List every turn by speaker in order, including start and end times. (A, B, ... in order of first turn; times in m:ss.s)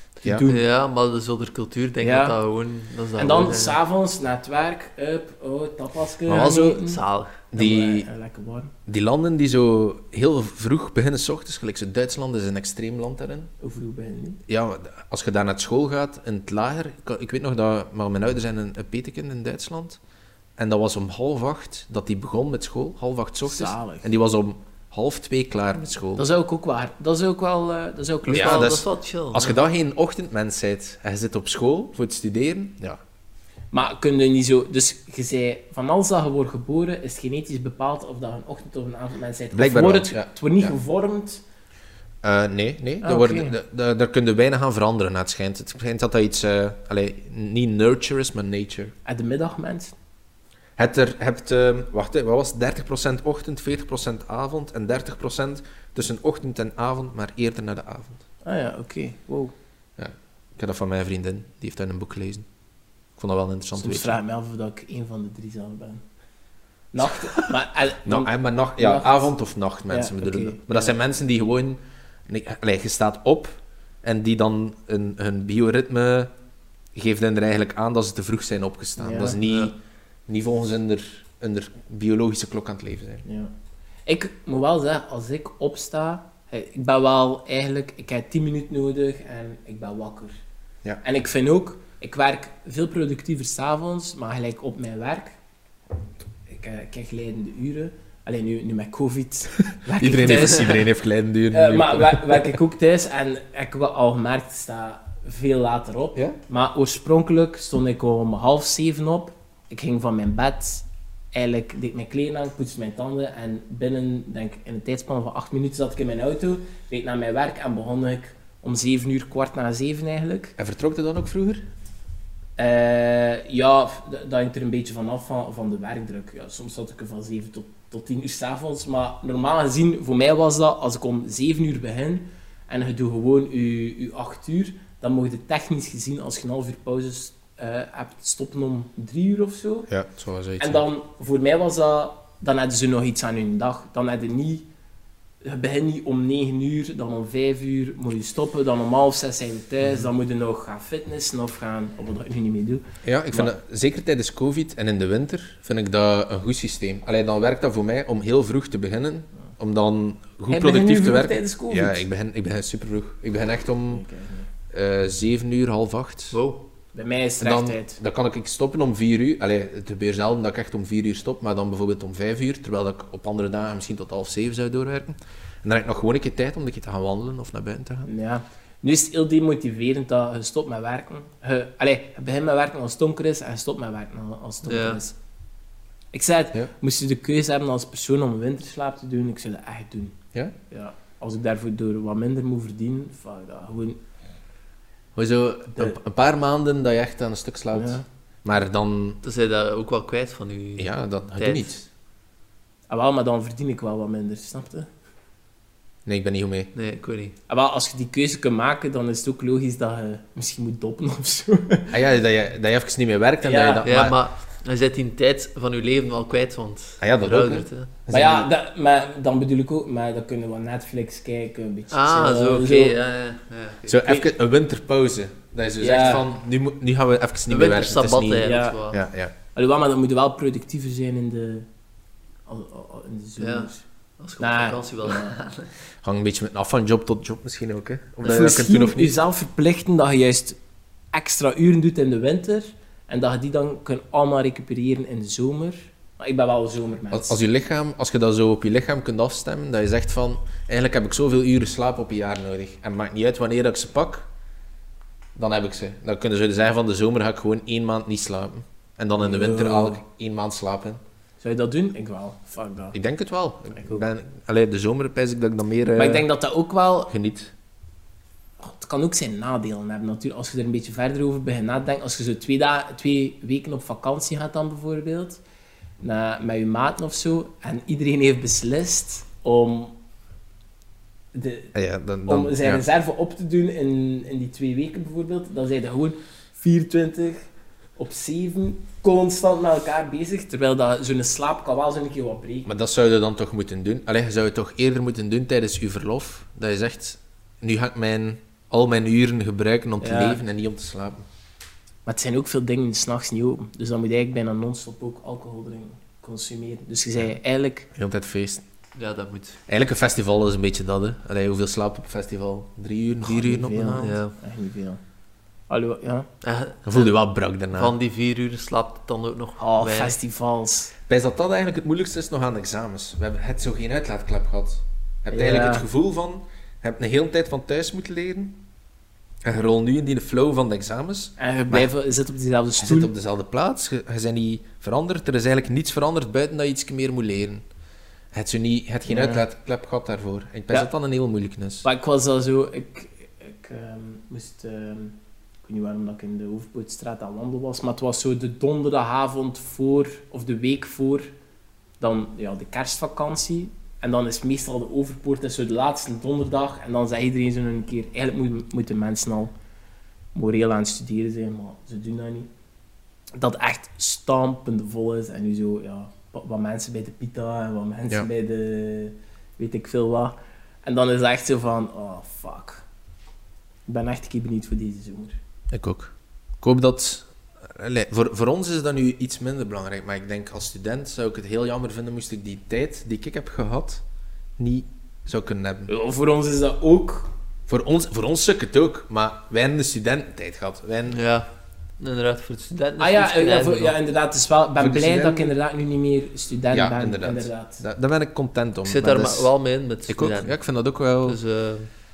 0:00.2-0:00.6 A
0:00.5-0:03.8 B
0:02.0-0:02.4 A
0:03.2-0:07.0 A
0:06.3-0:07.4 B
0:06.3-0:06.6 C
0:07.5-0:08.1 C
0:07.5-0:08.7 A
0:08.8-0:13.5 C
0:13.6-0:14.4 A
0:14.5-0:20.0 C
0:20.6-0:26.2 C
0:23.4-0:24.0 A
0:26.2-0:28.8 A
0:28.3-0:29.5 B
0:28.3-0:33.0 C
0:33.7-0:41.4 A
0:39.5-0:40.7 C
0:42.2-0:48.9 C
0:43.0-0:43.5 A
0:49.0-0:49.9 A
0:50.8-0:58.2 C
0:58.4-0:59.5 A
1:00.0-1:02.4 C
1:03.2-1:04.2 C
1:03.8-1:06.0 A
1:06.9-1:09.3 A
1:08.0-1:16.3 C
1:09.9-1:11.0 A
1:16.9-1:19.8 C
1:19.0-1:19.4 A
1:20.3-1:23.2 C
1:23.2-1:23.5 A
1:24.0-1:30.3 A
1:31.0-1:35.4 A
1:36.5-1:40.8 A
1:39.9-1:42.6 C
1:41.5-2:00.5 A
2:00.6-2:01.6 C
2:02.6-2:19.9 A
2:19.9-2:20.8 C
2:20.6-2:24.6 A
2:25.4-2:33.5 A
2:33.0-2:44.0 C
2:40.5-2:42.0 A
2:43.9-2:44.5 A
2:44.7-2:46.4 C
2:46.3-2:46.6 B
2:46.9-2:48.0 A
2:47.4-2:58.1 C
2:58.0-3:05.2 A
3:04.6-3:05.0 B
3:06.1-3:10.2 A
3:10.7-3:14.0 A
3:15.2-3:19.2 C
3:17.7-3:18.0 A
3:19.2-3:21.7 B
3:20.8-3:21.9 C
3:22.9-3:24.9 A
3:26.0-3:26.7 C
3:26.7-3:27.3 B
3:27.5-3:31.9 A
3:31.9-3:34.2 C
3:33.4-3:33.8 A
3:33.8-3:37.9 B
3:37.0-3:38.5 C
3:38.1-3:43.0 A
3:41.9-3:44.0 B
3:43.8-3:49.3 C
3:45.8-3:46.3 A
3:47.5-3:49.0 B
3:48.4-3:48.8 A
3:49.5-3:51.7 A
3:52.5-3:53.8 A
3:53.4-3:55.7 B
3:54.4-3:55.3 A
3:56.0-3:59.2 C
3:58.2-4:00.6 A
4:01.1-4:07.4 A
4:07.1-4:14.3 C
4:15.4-4:21.0 C
4:19.2-4:20.0 A
4:21.4-4:23.0 A
4:22.9-4:26.3 C
4:23.7-4:24.0 A
4:26.0-4:27.1 A
4:27.1-4:27.5 C
4:28.6-4:35.4 A
4:36.0-4:39.9 A
4:41.3-4:41.7 A
4:41.7-4:42.8 C
4:42.2-4:47.4 A
4:48.0-4:52.7 A
4:52.6-5:01.2 C
5:00.0-5:00.4 A
5:02.0-5:07.9 A
5:07.9-5:08.6 C
5:09.0-5:09.6 B
5:09.7-5:14.1 C
5:13.2-5:15.0 A
5:13.9-5:14.3 B
5:15.7-5:16.3 A
5:16.4-5:17.1 B
5:16.8-5:17.9 C
5:17.7-5:20.2 B
5:19.6-5:20.9 A
5:21.1-5:28.6 C
5:25.3-5:25.8 A
5:29.4-5:31.9 C
5:31.4-5:33.1 A
5:32.8-5:37.6 C
5:38.3-5:41.8 C
5:39.1-5:39.4 A
5:41.8-5:51.3 A
5:52.0-5:59.5 A
6:00.3-6:02.5 A
6:03.4-6:12.8 A
6:13.9-6:15.4 A
6:15.7-6:24.0 C
6:24.6-6:25.9 C
6:25.9-6:27.3 A
6:27.7-6:31.2 C
6:31.1-6:31.5 B
6:32.0-6:34.0 B
6:33.0-6:37.8 A
6:34.8-6:35.5 C
6:36.7-6:39.5 C
6:38.8-6:40.5 B
6:40.1-6:41.4 C
6:41.2-6:41.9 B